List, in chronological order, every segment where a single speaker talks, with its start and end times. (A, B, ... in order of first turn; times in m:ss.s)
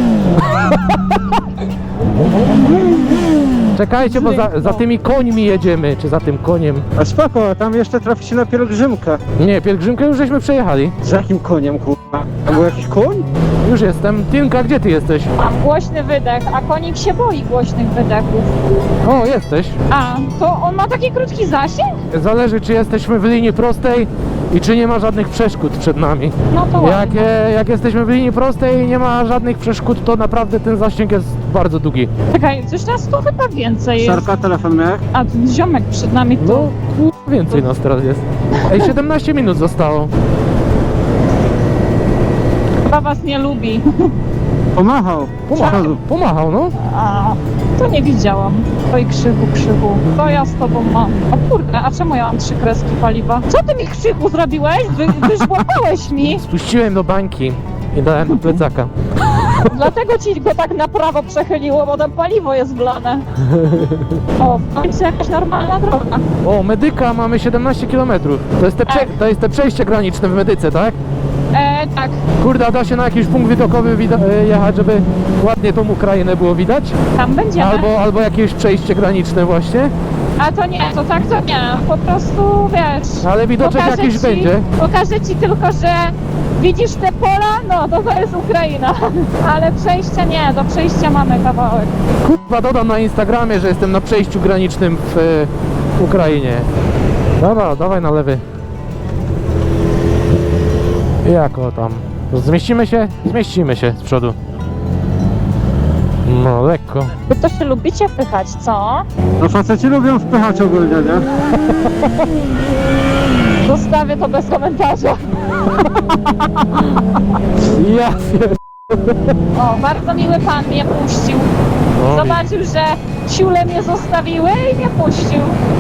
0:00.6-0:00.9 A
0:03.7-0:06.8 A
0:04.0-0:04.8 B
0:07.0-0:09.2 C
0:09.4-0:10.9 A
0:11.0-0:13.2 C
0:13.6-0:15.3 A
0:15.4-0:18.5 B
0:19.0-0:19.8 A
0:19.9-0:22.0 B
0:22.1-0:32.1 A
0:26.5-0:27.3 B
0:32.3-0:34.3 B
0:34.0-0:35.0 C
0:35.1-0:36.7 B
0:36.4-0:40.1 A
0:38.6-0:38.9 B
0:42.9-0:44.1 B
0:44.8-0:45.9 C
0:45.5-0:46.8 A
0:45.6-0:45.9 B
0:46.8-0:56.4 B
0:56.1-0:58.9 A
0:59.6-1:03.2 B
1:03.5-1:04.2 A
1:04.4-1:06.2 B
1:06.4-1:11.0 A
1:11.5-1:12.2 B
1:12.4-1:17.0 A
1:17.2-1:17.9 B
1:17.6-1:19.9 A
1:20.4-1:31.9 B
1:23.2-1:24.7 A
1:32.2-1:36.7 A
1:37.4-1:38.4 A
1:41.2-1:44.4 A
1:46.2-1:47.1 A
1:47.3-1:49.1 B
1:49.4-1:51.2 C
1:53.6-1:55.2 B
1:57.7-1:59.3 A
1:59.5-2:01.5 B
2:02.0-2:02.4 A
2:02.1-2:05.6 B